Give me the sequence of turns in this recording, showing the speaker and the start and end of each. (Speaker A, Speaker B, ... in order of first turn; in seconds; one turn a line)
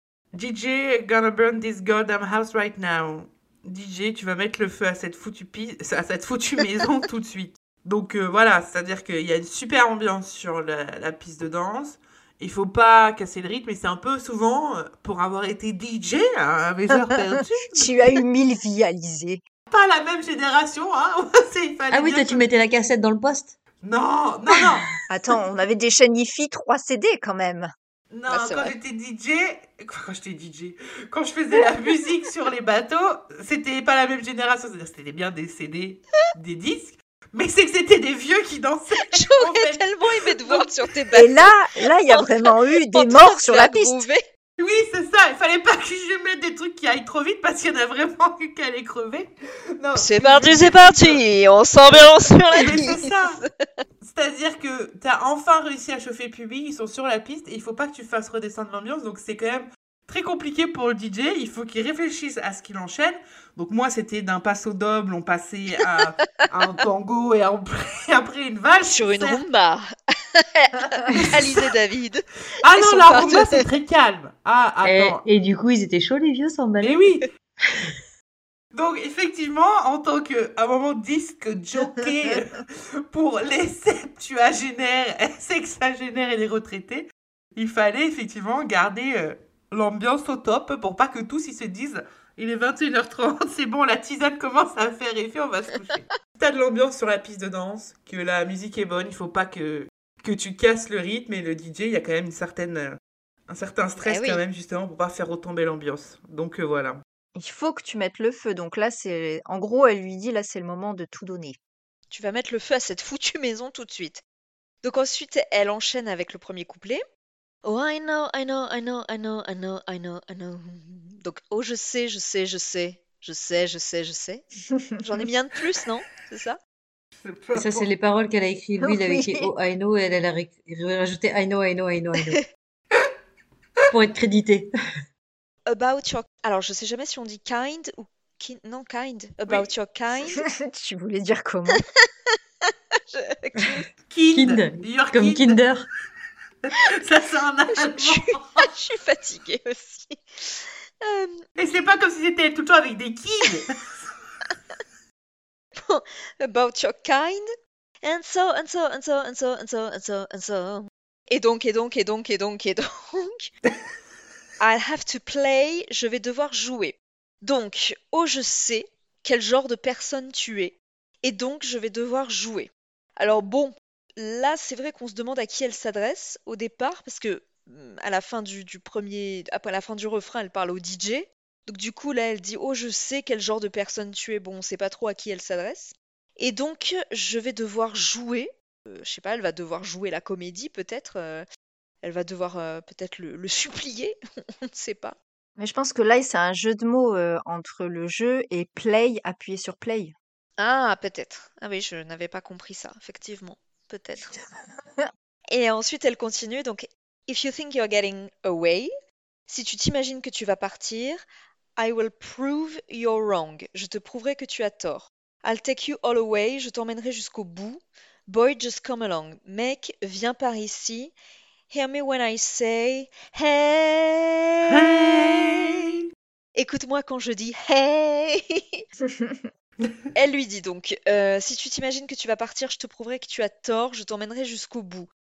Speaker A: 0.3-17.9
Speaker B: 17.7-19.4
Speaker A: 19.7-22.4
Speaker C: 21.9-23.6
Speaker A: 23.8-24.9
Speaker B: 25.1-27.7
Speaker A: 28.1-40.7
Speaker D: 28.3-28.7
Speaker D: 39.1-41.5
Speaker B: 41.1-44.0
Speaker D: 42.1-44.2
Speaker A: 44.6-51.2
Speaker D: 50.0-53.4
Speaker A: 52.5-53.4
Speaker A: 54.0-69.4
Speaker D: 68.8-73.7
Speaker A: 71.1-71.7
Speaker A: 72.6-75.2
Speaker C: 74.8-77.1
Speaker A: 76.8-77.3
Speaker A: 78.7-107.0
Speaker D: 104.0-104.4
Speaker B: 107.3-111.6
Speaker D: 112.1-114.2
Speaker D: 114.8-117.0
Speaker D: 117.6-124.5
Speaker D: 125.0-126.6
Speaker A: 127.2-127.9
Speaker C: 127.5-132.4
Speaker B: 128.8-129.5
Speaker C: 133.9-134.7
Speaker D: 135.7-140.4
Speaker B: 140.3-141.8
Speaker D: 141.8-143.9
Speaker A: 144.1-145.6
Speaker C: 144.3-145.9
Speaker A: 146.7-148.7
Speaker D: 147.7-151.4
Speaker A: 151.6-153.9
Speaker D: 155.8-157.4
Speaker D: 158.0-163.5
Speaker D: 164.6-191.4
Speaker D: 192.0-195.2
Speaker B: 195.6-200.1
Speaker D: 200.6-204.3
Speaker D: 205.5-208.9
Speaker D: 209.5-211.2
Speaker D: 211.8-221.1
Speaker D: 221.7-225.7
Speaker A: 224.7-225.9
Speaker D: 226.6-228.8
Speaker B: 229.0-229.5
Speaker D: 230.1-235.1